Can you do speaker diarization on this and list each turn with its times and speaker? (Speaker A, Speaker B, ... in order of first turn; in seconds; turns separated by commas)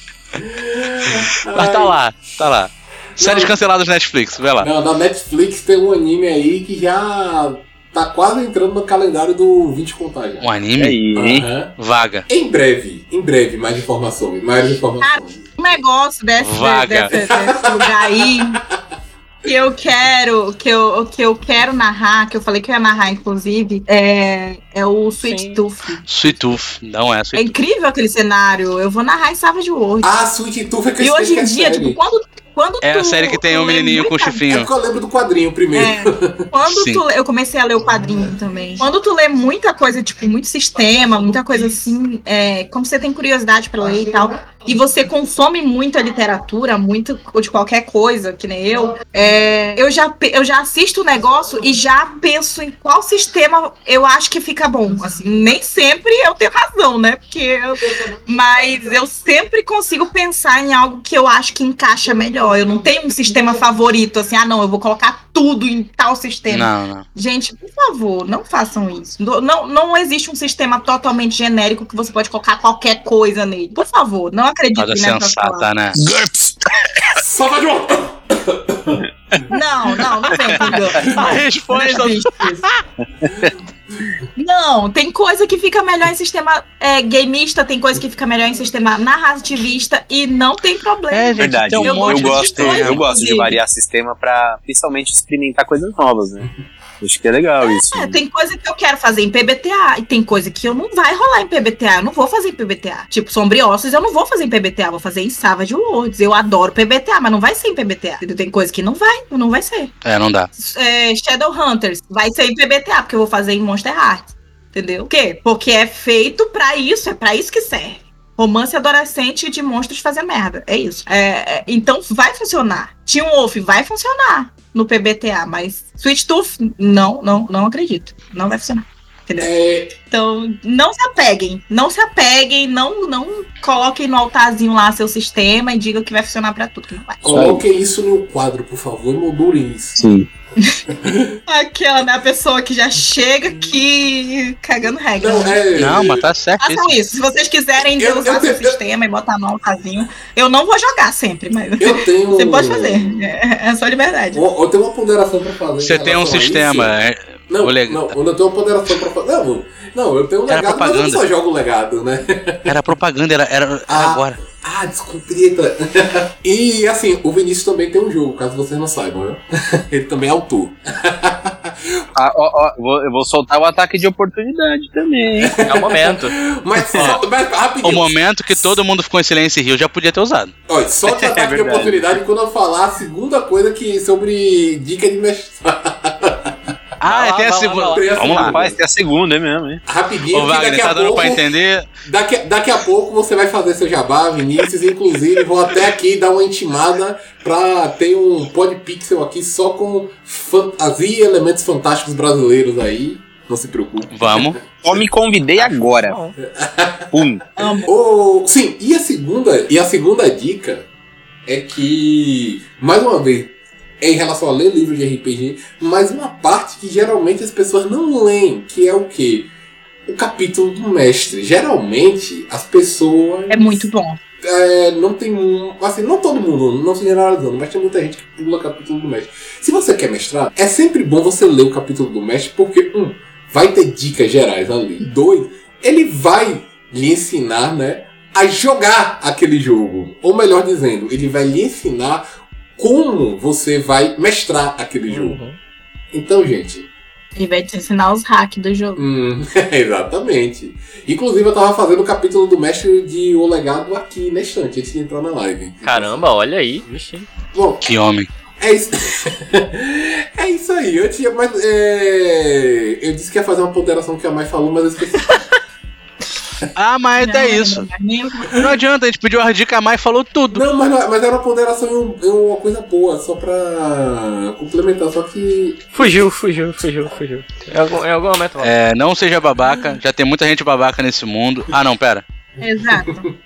Speaker A: 0.3-2.0, Speaker B: 1.5-4.7, Speaker A: 3.2-3.5, Speaker A: 4.6-10.5, Speaker B: 10.4-11.0, Speaker C: 10.8-11.5, Speaker A: 11.2-11.8, Speaker B: 11.8-12.3, Speaker A: 12.3-15.4, Speaker D: 15.0-18.6, Speaker B: 16.4-17.1, Speaker A: 17.1-18.8, Speaker D: 19.4-26.1, Speaker E: 25.2-25.6, Speaker B: 26.1-27.5, Speaker D: 27.4-30.1, Speaker A: 30.0-32.0, Speaker D: 31.0-34.5, Speaker B: 32.8-34.7, Speaker A: 34.5-36.5, Speaker D: 35.7-75.7, Speaker B: 36.7-37.0, Speaker B: 66.5-67.1, Speaker B: 74.8-76.0, Speaker C: 76.0-77.2, Speaker A: 77.2-79.0, Speaker D: 79.5-82.7, Speaker C: 80.5-81.2, Speaker B: 81.0-82.8, Speaker C: 83.2-83.6, Speaker D: 84.4-93.6, Speaker B: 91.1-93.1, Speaker C: 91.4-96.5, Speaker C: 97.0-98.2, Speaker D: 97.6-109.9, Speaker B: 110.0-110.5, Speaker D: 110.6-129.5, Speaker A: 129.4-129.9, Speaker D: 130.1-137.3, Speaker A: 137.2-140.2, Speaker C: 137.3-137.6, Speaker C: 140.0-140.3, Speaker A: 140.9-141.4, Speaker D: 141.5-145.6, Speaker A: 145.2-146.3, Speaker B: 145.8-146.9, Speaker D: 146.6-154.4, Speaker A: 148.0-148.8, Speaker A: 151.8-153.2, Speaker A: 154.3-156.9, Speaker B: 155.8-158.1, Speaker A: 157.5-162.8, Speaker B: 160.5-161.2, Speaker B: 162.7-164.4, Speaker A: 163.9-172.0, Speaker C: 172.2-175.7, Speaker A: 175.4-178.8, Speaker E: 175.7-176.4, Speaker B: 176.9-177.2, Speaker B: 177.8-180.5, Speaker A: 180.7-186.6, Speaker C: 181.1-182.2, Speaker B: 187.0-188.6, Speaker E: 187.3-188.1, Speaker A: 187.7-188.8, Speaker C: 188.1-189.8, Speaker A: 189.9-191.5, Speaker B: 190.3-191.9, Speaker A: 192.1-205.0, Speaker B: 204.1-204.6, Speaker C: 204.8-206.2, Speaker E: 205.6-206.4, Speaker A: 206.5-210.9, Speaker C: 207.1-207.4, Speaker D: 207.6-207.9, Speaker A: 211.5-219.5, Speaker A: 220.1-223.9, Speaker D: 223.5-224.2, Speaker A: 224.4-242.2, Speaker A: 242.8-245.4, Speaker E: 245.1-245.6, Speaker A: 246.1-246.9, Speaker D: 247.4-249.1, Speaker A: 249.0-256.2, Speaker E: 255.8-257.3, Speaker A: 257.5-257.9, Speaker B: 257.8-258.3, Speaker A: 258.6-265.4, Speaker B: 266.8-267.9, Speaker D: 267.2-268.6, Speaker B: 268.5-270.7, Speaker A: 270.5-276.1, Speaker E: 275.9-278.7, Speaker B: 278.6-282.2, Speaker D: 282.6-283.2, Speaker A: 282.8-283.3